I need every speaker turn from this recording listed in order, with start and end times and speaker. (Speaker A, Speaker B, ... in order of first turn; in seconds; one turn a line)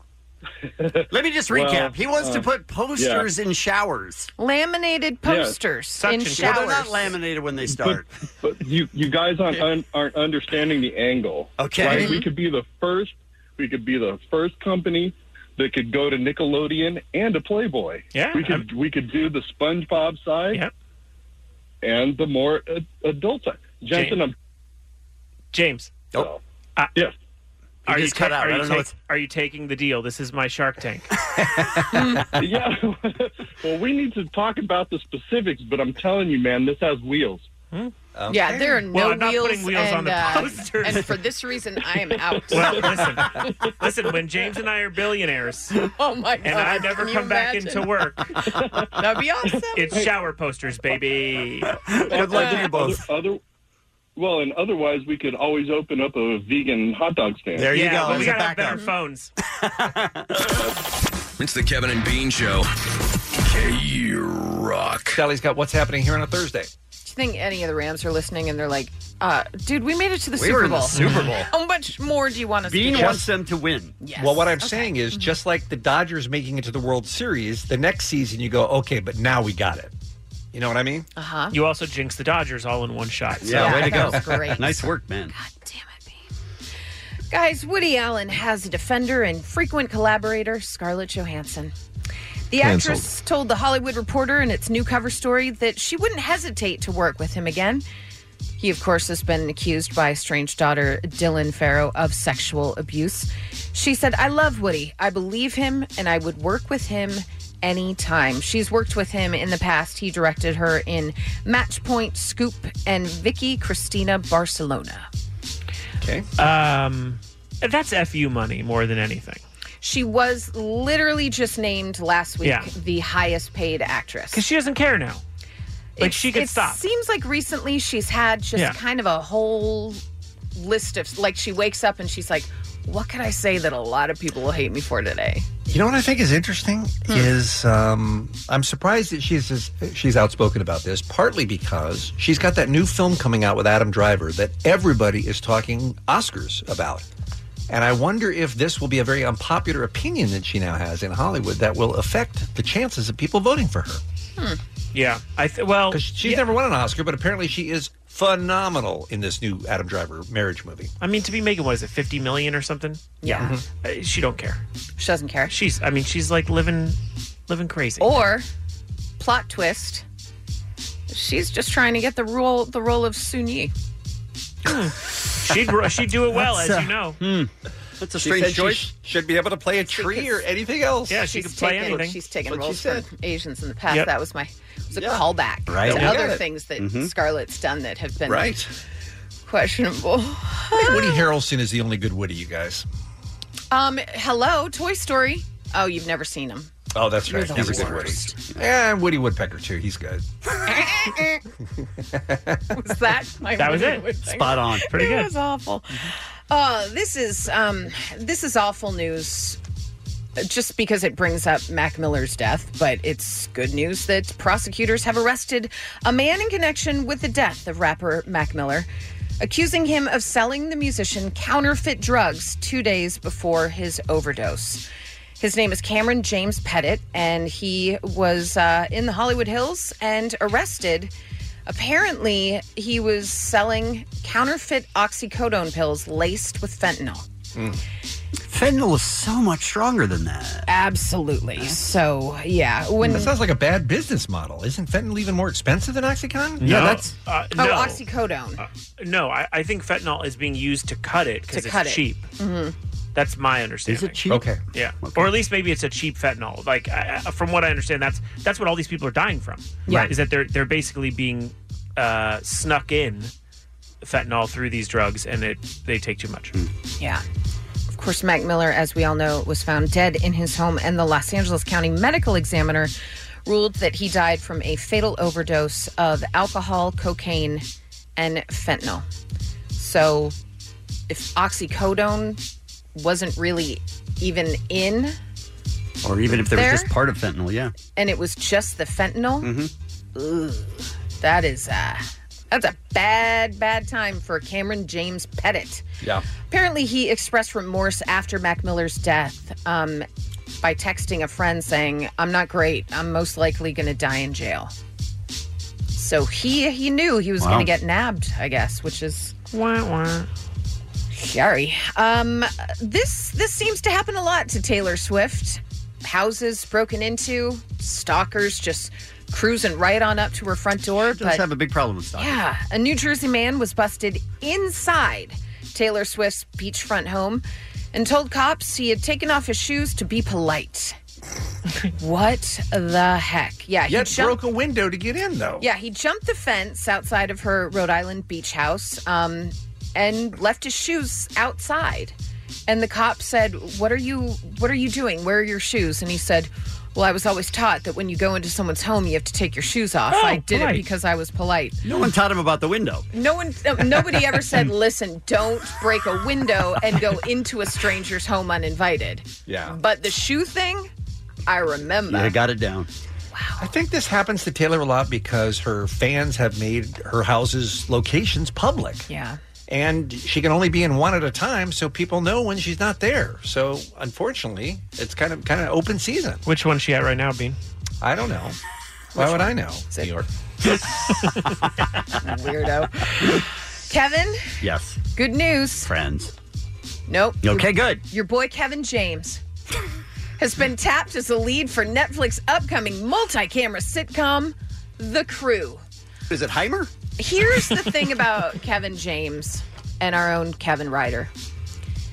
Speaker A: 0.8-3.3
Speaker B: 1.1-4.3
Speaker C: 4.4-7.1
Speaker A: 5.2-5.6
Speaker D: 6.0-7.0
Speaker B: 6.3-8.1
Speaker A: 7.6-20.6
Speaker B: 11.6-12.2
Speaker C: 11.9-12.2
Speaker D: 18.1-18.7
Speaker A: 21.8-24.3
Speaker D: 23.9-24.2
Speaker D: 25.5-26.1
Speaker A: 26.1-26.4
Speaker B: 27.9-28.9
Speaker D: 27.9-31.1
Speaker C: 31.9-32.3
Speaker A: 32.4-37.5
Speaker E: 38.1-38.8
Speaker C: 38.3-42.9
Speaker D: 38.9-41.2
Speaker A: 42.4-43.3
Speaker D: 42.5-45.8
Speaker C: 45.9-47.9
Speaker D: 46.4-48.3
Speaker C: 49.0-50.0
Speaker D: 49.7-51.8
Speaker B: 51.9-53.0
Speaker A: 52.1-53.4
Speaker A: 54.2-58.3
Speaker B: 57.6-58.9
Speaker D: 57.7-59.3
Speaker B: 59.6-60.5
Speaker F: 61.4-62.7
Speaker F: 63.4-65.2
Speaker E: 65.1-66.7
Speaker C: 67.0-73.3
Speaker B: 70.4-71.5
Speaker D: 71.0-71.3
Speaker B: 72.7-74.0
Speaker E: 72.9-73.2
Speaker C: 74.0-75.3
Speaker E: 74.2-79.9
Speaker E: 80.5-81.1
Speaker C: 81.2-81.5
Speaker D: 81.5-84.2
Speaker B: 83.4-85.3
Speaker C: 83.5-86.2
Speaker C: 87.3-91.7
Speaker C: 92.5-97.8
Speaker C: 98.6-115.1
Speaker E: 116.0-116.3
Speaker D: 116.4-119.4
Speaker C: 119.8-124.4
Speaker D: 122.4-122.7
Speaker D: 124.3-125.2
Speaker C: 126.0-130.0
Speaker D: 126.0-126.8
Speaker C: 130.6-135.5
Speaker E: 135.7-147.1
Speaker E: 147.7-154.0
Speaker D: 154.9-156.4
Speaker E: 155.9-160.9
Speaker D: 161.0-164.6
Speaker C: 163.2-163.5
Speaker C: 165.0-165.6
Speaker D: 165.5-167.0
Speaker D: 167.5-168.2
Speaker C: 168.0-168.5
Speaker C: 169.2-170.1
Speaker C: 171.1-173.7
Speaker D: 174.7-177.2
Speaker B: 176.3-178.9
Speaker E: 178.2-181.3
Speaker C: 179.9-180.4
Speaker D: 181.1-182.2
Speaker C: 181.2-188.5
Speaker E: 182.5-183.1
Speaker B: 185.0-187.1
Speaker E: 185.9-186.4
Speaker E: 188.3-188.7
Speaker C: 189.5-191.2
Speaker E: 190.7-192.9
Speaker C: 193.7-196.7
Speaker E: 196.9-200.2
Speaker C: 197.3-198.4
Speaker B: 197.5-198.2
Speaker C: 200.7-201.4
Speaker E: 202.1-202.6
Speaker C: 202.7-209.6
Speaker D: 203.6-204.1
Speaker B: 204.2-204.9
Speaker D: 204.9-205.3
Speaker C: 210.4-218.9
Speaker C: 219.4-224.8
Speaker C: 225.4-231.1
Speaker C: 231.7-237.3
Speaker E: 237.6-237.8
Speaker B: 238.5-240.7
Speaker C: 240.7-243.3
Speaker E: 243.0-247.0
Speaker D: 246.6-248.0
Speaker B: 246.7-247.0
Speaker C: 247.6-248.6
Speaker D: 248.6-252.3
Speaker C: 251.5-252.8
Speaker D: 253.2-254.2
Speaker B: 253.9-254.5
Speaker E: 254.3-254.6
Speaker D: 254.7-263.3
Speaker B: 255.0-255.3
Speaker D: 264.0-266.5
Speaker C: 267.9-272.9
Speaker C: 273.5-277.6
Speaker C: 278.2-279.1
Speaker C: 279.8-280.4
Speaker C: 281.1-282.4
Speaker C: 282.9-285.2
Speaker B: 286.0-287.7
Speaker C: 286.3-286.9
Speaker C: 287.9-289.5
Speaker B: 289.4-289.7
Speaker C: 290.1-295.9
Speaker C: 296.5-300.1
Speaker C: 300.6-304.7
Speaker C: 306.0-309.4
Speaker B: 307.4-307.7
Speaker D: 309.5-310.3
Speaker C: 311.1-321.4
Speaker B: 321.1-322.4
Speaker C: 322.2-331.0
Speaker C: 332.0-334.4
Speaker E: 333.9-335.7
Speaker C: 335.6-342.1
Speaker C: 342.7-351.8
Speaker D: 350.1-350.8
Speaker B: 351.8-353.1
Speaker C: 353.1-360.9
Speaker E: 359.5-359.7
Speaker C: 361.5-362.4
Speaker B: 362.1-362.9
Speaker C: 363.3-363.6
Speaker E: 363.6-369.1
Speaker C: 369.1-369.4
Speaker E: 369.7-376.4
Speaker D: 376.5-377.6
Speaker E: 378.0-378.6
Speaker C: 379.1-380.1
Speaker E: 379.1-380.3
Speaker C: 382.2-384.5
Speaker B: 384.6-385.0
Speaker C: 385.1-385.9
Speaker B: 385.9-386.3
Speaker C: 387.1-389.4
Speaker B: 387.4-388.0
Speaker C: 390.4-395.8
Speaker B: 396.3-396.9
Speaker C: 397.2-401.3